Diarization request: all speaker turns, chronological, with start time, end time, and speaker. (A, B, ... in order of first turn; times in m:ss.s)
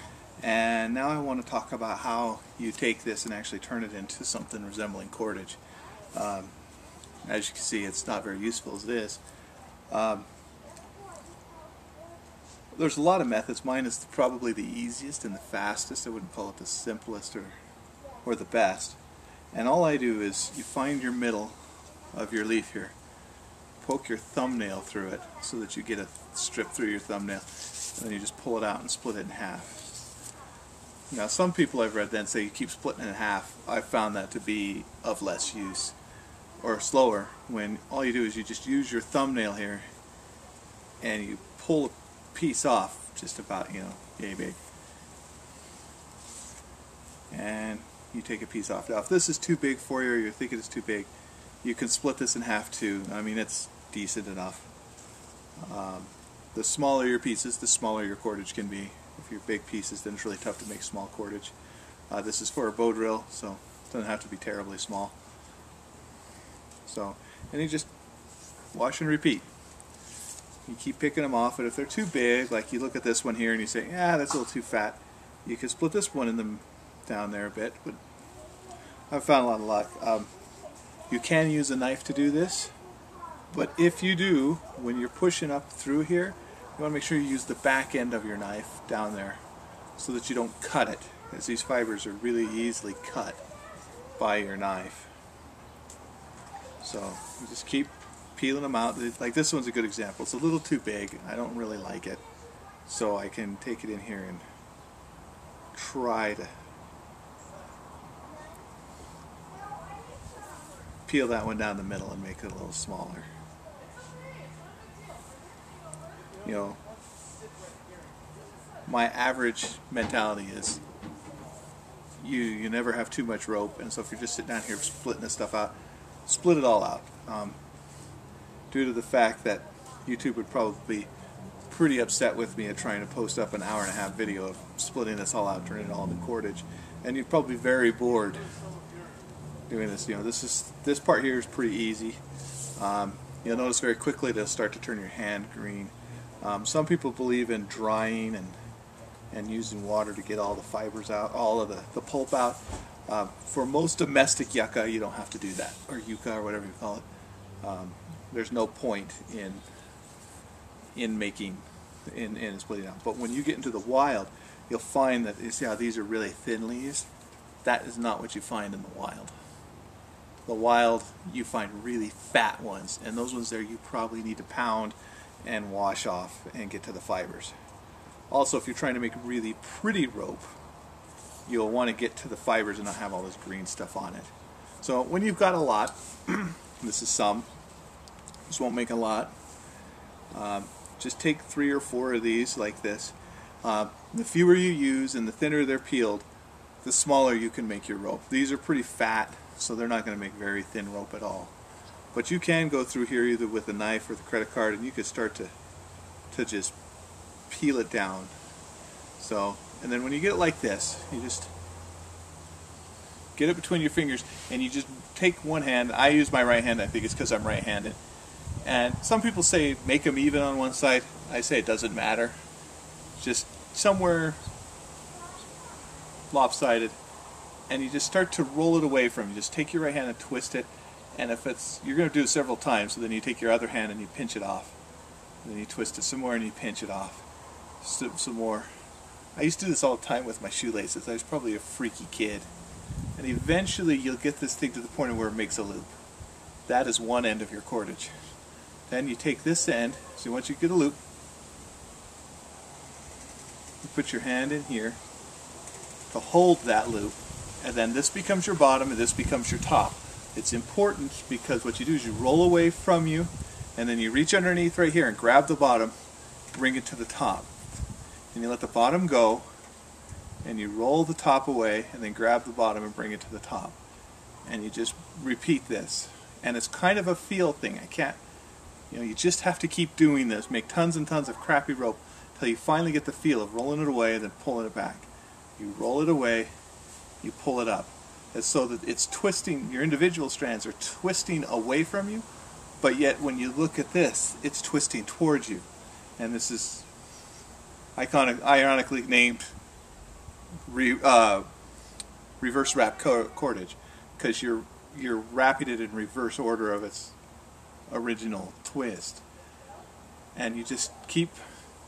0:00.4-0:05.6 A
0:06.1-0:06.5 A
0:07.2-0:09.2 A
0:09.9-0:10.3 A
0:12.7-0:17.6 A
0:18.2-0:19.0 A
0:19.5-0:21.6 A
0:22.1-0:22.9 A
0:23.8-0:30.0 A
0:31.1-0:36.0 A
0:36.6-0:39.8 A
0:41.0-0:44.6 A
0:47.3-0:51.1 A
0:51.6-0:54.7 A
0:55.6-1:01.5 A
1:02.1-1:05.2 A
1:06.9-1:07.9 A
1:08.7-1:09.5 A
1:10.7-1:18.0 A
1:19.1-1:20.3 A
1:21.1-1:22.7 A
1:23.5-1:29.4 A
1:30.0-1:33.4 A
1:34.2-1:35.1 A
1:36.8-1:42.2 A
1:42.9-1:44.4 A
1:45.7-1:46.5 A
1:51.1-1:53.3 A
1:56.4-1:56.8 A
1:58.9-2:00.8 A
2:02.2-2:05.7 A
2:06.2-2:07.6 A
2:08.7-2:11.1 A
2:11.7-2:18.5 A
2:19.7-2:22.2 A
2:22.8-2:28.6 A
2:29.3-2:37.0 A
2:37.6-2:39.6 A
2:40.9-2:47.1 A
2:47.6-2:49.3 A
2:50.5-2:57.5 A
2:58.3-3:00.5 A
3:01.5-3:04.3 A
3:04.8-3:07.5 A
3:08.5-3:09.3 A
3:10.3-3:16.2 A
3:16.8-3:21.5 A
3:22.1-3:25.5 A
3:26.3-3:26.7 A
3:27.5-3:28.3 A
3:29.2-3:31.5 A
3:33.4-3:38.0 A
3:38.6-3:42.4 A
3:43.2-3:44.4 A
3:46.3-3:47.0 A
3:47.7-3:54.8 A
3:55.4-3:57.2 A
3:57.8-3:58.7 A
3:59.4-4:02.5 A
4:03.2-4:05.9 A
4:06.7-4:08.1 A
4:08.9-4:11.0 A
4:13.8-4:15.0 A
4:16.1-4:25.9 A
4:26.5-4:27.5 A
4:28.3-4:29.4 A
4:30.4-4:33.8 A
4:34.4-4:38.2 A
4:38.9-4:46.5 A
4:47.2-4:52.2 A
4:52.8-4:55.6 A
4:56.2-4:56.9 A
4:58.0-4:59.4 A
5:00.7-5:01.5 A
5:02.4-5:07.1 A
5:07.9-5:09.2 A
5:10.3-5:11.4 A